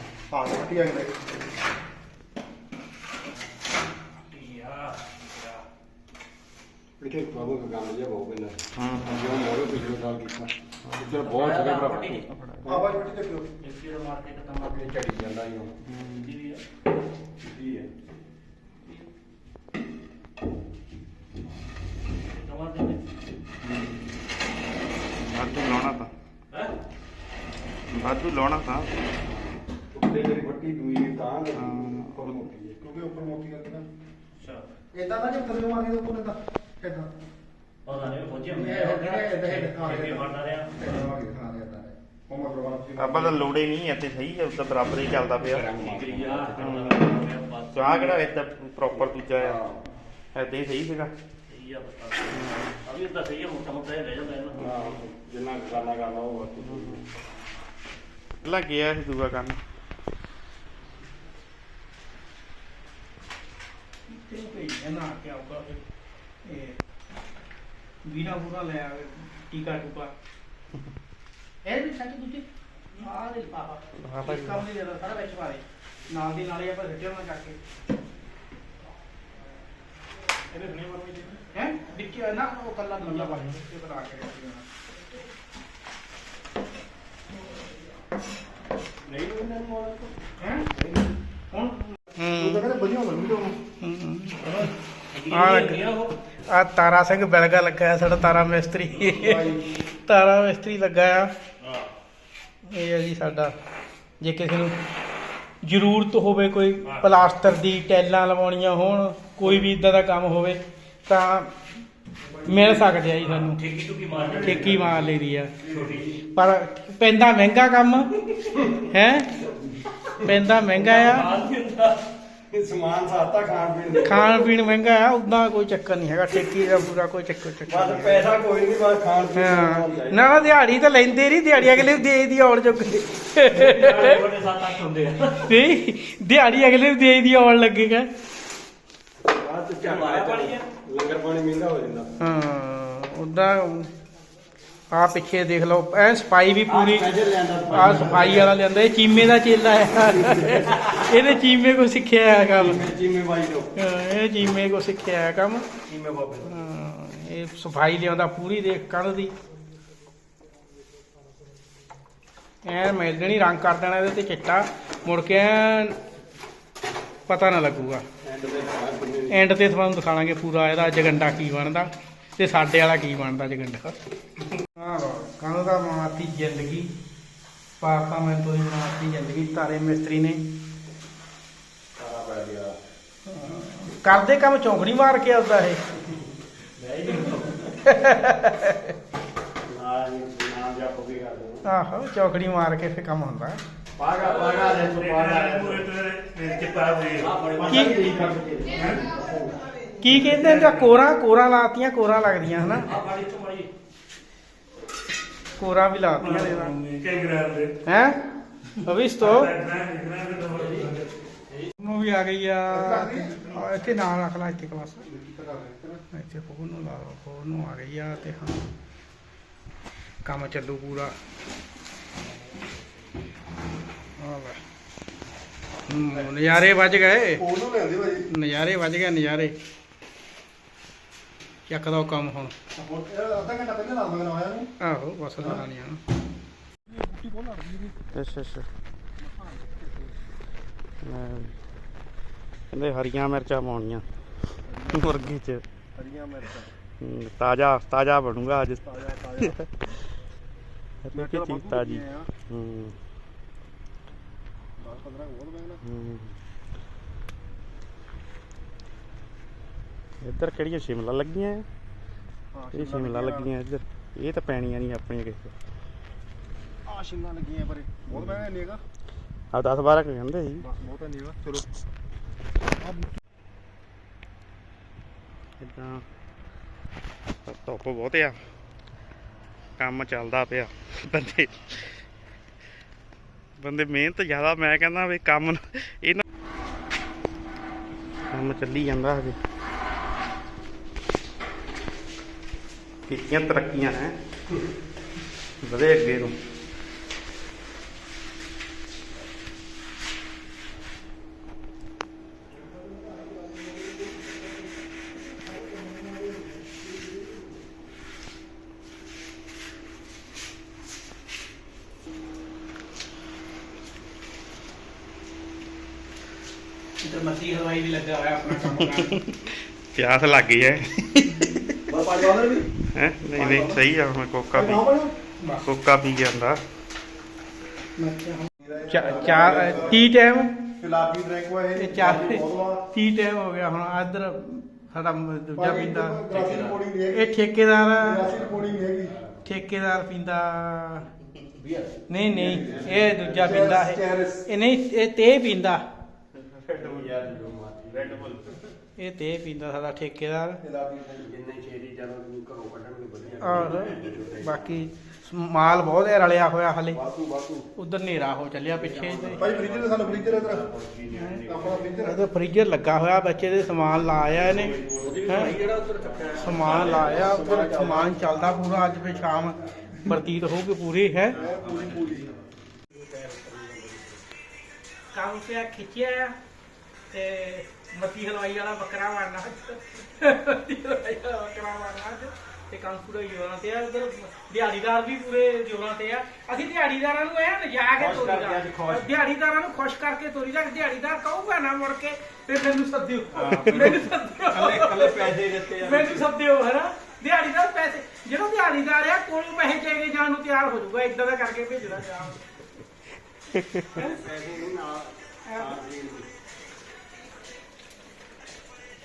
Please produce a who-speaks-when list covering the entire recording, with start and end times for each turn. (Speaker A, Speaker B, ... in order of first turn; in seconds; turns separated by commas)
Speaker A: 0.3-1.2, Speaker B: 4.3-5.6, Speaker C: 7.0-12.9, Speaker D: 8.8-9.5, Speaker B: 11.1-12.3, Speaker A: 12.7-13.5, Speaker B: 13.6-15.0, Speaker C: 14.7-15.7, Speaker D: 15.9-16.3, Speaker B: 16.1-16.6, Speaker C: 17.4-17.9, Speaker B: 22.3-23.0, Speaker D: 25.2-26.1, Speaker D: 27.9-28.9, Speaker C: 29.9-32.8, Speaker D: 31.6-32.5, Speaker A: 32.8-33.9, Speaker B: 34.4-34.7, Speaker A: 34.9-37.1, Speaker B: 37.9-40.9, Speaker A: 38.5-43.5, Speaker D: 43.0-45.7, Speaker C: 45.4-46.9, Speaker B: 45.7-48.2, Speaker D: 46.6-47.1, Speaker D: 47.7-49.6, Speaker C: 49.3-49.9, Speaker D: 50.3-51.1, Speaker B: 51.5-55.0, Speaker D: 52.3-52.7, Speaker C: 54.6-57.0, Speaker D: 56.6-57.0, Speaker D: 58.4-59.6, Speaker E: 64.1-65.8, Speaker E: 66.5-66.8, Speaker E: 68.0-70.1, Speaker E: 71.7-77.6, Speaker D: 74.0-74.7, Speaker B: 80.5-81.3, Speaker C: 80.7-81.2, Speaker E: 81.5-84.6, Speaker C: 89.0-90.1, Speaker E: 90.4-90.7, Speaker C: 90.7-91.1, Speaker E: 91.5-92.7, Speaker A: 92.4-93.6, Speaker E: 93.8-94.7, Speaker A: 94.4-94.7, Speaker B: 95.1-96.1, Speaker E: 95.3-95.9, Speaker E: 96.5-99.5, Speaker A: 99.0-99.6, Speaker E: 100.1-101.3, Speaker B: 101.6-101.9, Speaker E: 102.7-103.5, Speaker E: 104.2-104.8, Speaker E: 105.6-111.6, Speaker B: 106.8-107.1, Speaker E: 112.5-113.6, Speaker B: 113.2-115.0, Speaker E: 114.4-115.5, Speaker B: 115.6-116.1, Speaker E: 116.3-118.1, Speaker C: 118.5-118.8, Speaker E: 118.8-119.3, Speaker E: 120.2-121.3, Speaker B: 120.7-122.0, Speaker C: 122.5-124.5, Speaker E: 124.0-128.3, Speaker C: 127.7-130.5, Speaker E: 129.3-134.2, Speaker B: 133.4-135.6, Speaker E: 135.4-138.1, Speaker C: 139.2-142.1, Speaker B: 139.8-140.6, Speaker E: 142.2-143.9, Speaker E: 144.9-147.1, Speaker C: 146.7-148.6, Speaker E: 147.7-152.8, Speaker C: 150.0-151.3, Speaker C: 152.5-153.7, Speaker E: 153.8-155.7, Speaker C: 155.9-156.6, Speaker E: 156.5-159.3, Speaker E: 162.7-166.0, Speaker E: 167.3-168.1, Speaker C: 168.2-169.5, Speaker E: 169.3-173.9, Speaker E: 174.8-176.9, Speaker E: 177.8-180.6, Speaker C: 182.0-182.8, Speaker E: 183.3-185.8, Speaker B: 186.8-187.7, Speaker E: 187.8-188.9, Speaker C: 189.7-191.7, Speaker E: 191.7-193.6, Speaker C: 194.0-195.9, Speaker B: 194.2-198.3, Speaker D: 196.3-196.9, Speaker C: 197.2-199.6, Speaker E: 197.7-198.1, Speaker E: 200.0-202.9, Speaker B: 202.7-203.7, Speaker E: 205.6-207.0, Speaker B: 206.3-207.7, Speaker E: 207.8-208.2, Speaker E: 208.8-209.5, Speaker D: 209.4-210.5, Speaker B: 210.4-211.0, Speaker C: 210.5-211.7, Speaker E: 211.8-215.1, Speaker A: 212.7-213.4, Speaker A: 215.0-216.0, Speaker E: 216.1-218.6, Speaker E: 220.2-221.2, Speaker E: 224.2-224.6, Speaker E: 225.9-227.4, Speaker A: 227.4-228.3, Speaker E: 228.3-229.5, Speaker E: 231.7-232.5, Speaker A: 232.8-234.7, Speaker E: 234.8-236.0, Speaker A: 235.4-235.7, Speaker A: 236.9-238.0, Speaker D: 238.1-238.7, Speaker A: 239.2-240.1, Speaker D: 241.0-241.6, Speaker D: 242.7-244.1, Speaker A: 244.7-245.3, Speaker D: 244.9-245.6, Speaker A: 245.9-246.7, Speaker D: 247.0-248.9, Speaker A: 248.9-249.6, Speaker D: 249.4-249.7, Speaker D: 251.1-253.0, Speaker A: 251.1-252.3, Speaker A: 254.8-255.8, Speaker D: 255.8-256.3, Speaker D: 260.2-261.6, Speaker A: 262.5-263.5, Speaker D: 262.7-265.5, Speaker C: 266.9-268.0, Speaker A: 267.5-268.8, Speaker D: 268.1-268.4, Speaker D: 269.5-270.7, Speaker A: 270.6-271.7, Speaker A: 272.8-273.1, Speaker D: 275.6-276.0, Speaker D: 277.4-278.4, Speaker D: 279.8-282.0, Speaker D: 283.6-286.2, Speaker D: 288.3-289.4, Speaker D: 293.1-294.1, Speaker D: 295.6-296.4, Speaker E: 317.0-319.2, Speaker D: 318.5-321.7, Speaker A: 321.9-322.7, Speaker D: 322.9-324.8, Speaker A: 323.3-323.9, Speaker A: 324.5-325.1, Speaker D: 325.6-326.6, Speaker E: 328.0-330.6, Speaker A: 328.6-330.0, Speaker C: 329.1-329.9, Speaker A: 330.8-332.8, Speaker E: 331.8-336.2, Speaker A: 335.6-337.3, Speaker B: 336.3-336.6, Speaker E: 337.1-338.3, Speaker A: 337.9-339.2, Speaker C: 338.2-339.4, Speaker E: 339.4-341.1, Speaker C: 341.6-342.0, Speaker E: 342.1-345.8, Speaker A: 342.3-344.5, Speaker C: 342.5-343.7, Speaker D: 346.7-347.1, Speaker C: 346.7-348.4, Speaker D: 347.9-348.4, Speaker E: 349.0-350.6, Speaker A: 350.6-351.3, Speaker C: 351.2-354.8, Speaker E: 353.4-357.0, Speaker C: 357.0-357.6, Speaker E: 357.8-359.4, Speaker C: 358.7-361.8, Speaker A: 359.4-360.6, Speaker E: 361.1-361.4, Speaker A: 361.4-362.2, Speaker E: 362.0-364.7, Speaker C: 364.5-369.3, Speaker B: 365.0-367.1, Speaker E: 365.3-365.6, Speaker E: 366.4-371.4, Speaker A: 367.0-368.1, Speaker A: 371.3-372.3, Speaker B: 371.8-372.3, Speaker C: 372.9-374.2, Speaker E: 375.1-376.4, Speaker E: 377.1-402.4, Speaker C: 388.0-389.1, Speaker C: 393.4-396.3, Speaker D: 393.6-393.9, Speaker D: 403.5-403.9, Speaker C: 403.9-406.3, Speaker E: 405.5-405.8